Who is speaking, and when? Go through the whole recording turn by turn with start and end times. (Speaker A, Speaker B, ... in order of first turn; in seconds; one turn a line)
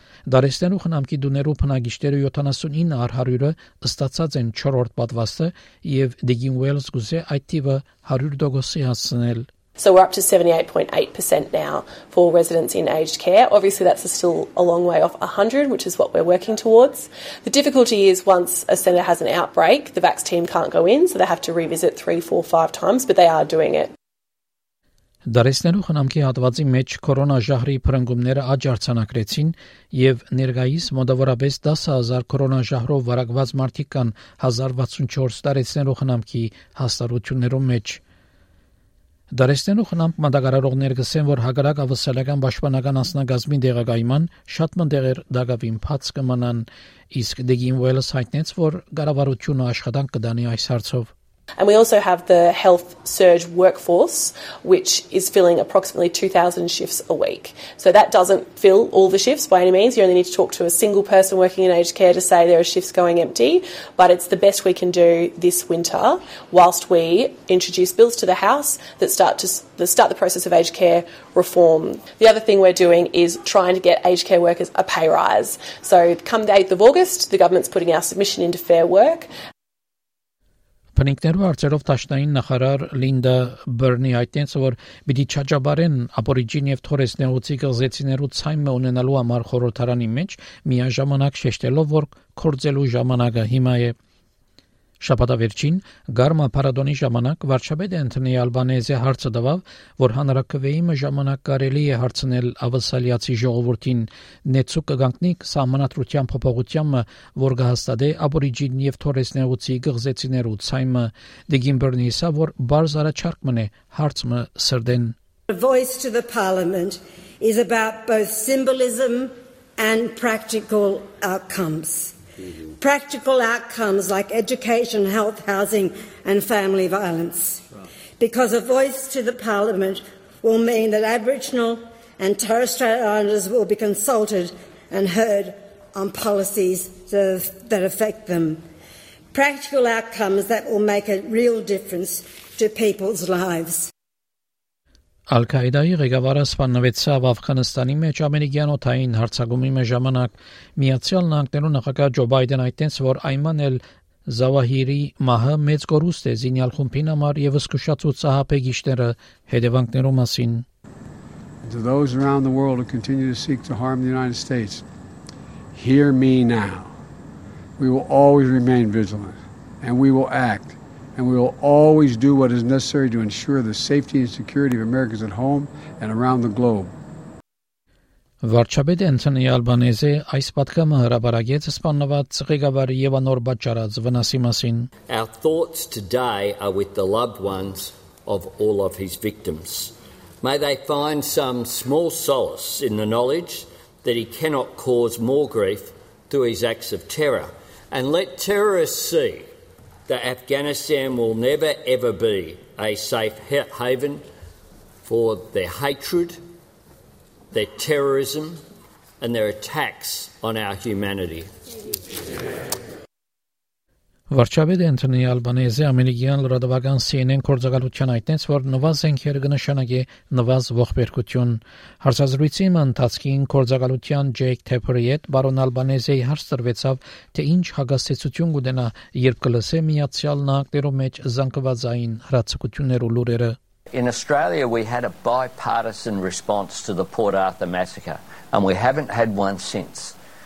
Speaker A: 0.3-9.5
Speaker B: 9.8-23.9
Speaker A: 25.2-38.0
Speaker A: 39.3-51.1
Speaker B: 51.6-79.3
Speaker A: 81.0-93.9
Speaker A: 95.0-115.1
Speaker C: 115.5-122.1
Speaker C: 122.8-127.6
Speaker C: 128.2-138.6
Speaker C: 139.3-143.9
Speaker A: 145.3-160.7
Speaker D: 161.6-164.8
Speaker D: 165.7-166.9
Speaker D: 167.8-176.9
Speaker A: 178.4-184.9
Speaker E: 185.1-199.4
Speaker E: 200.1-204.2
Speaker E: 205.0-206.4
Speaker E: 207.5-208.6
Speaker E: 209.2-211.5
Speaker A: 214.3-233.6
Speaker E: 233.9-240.2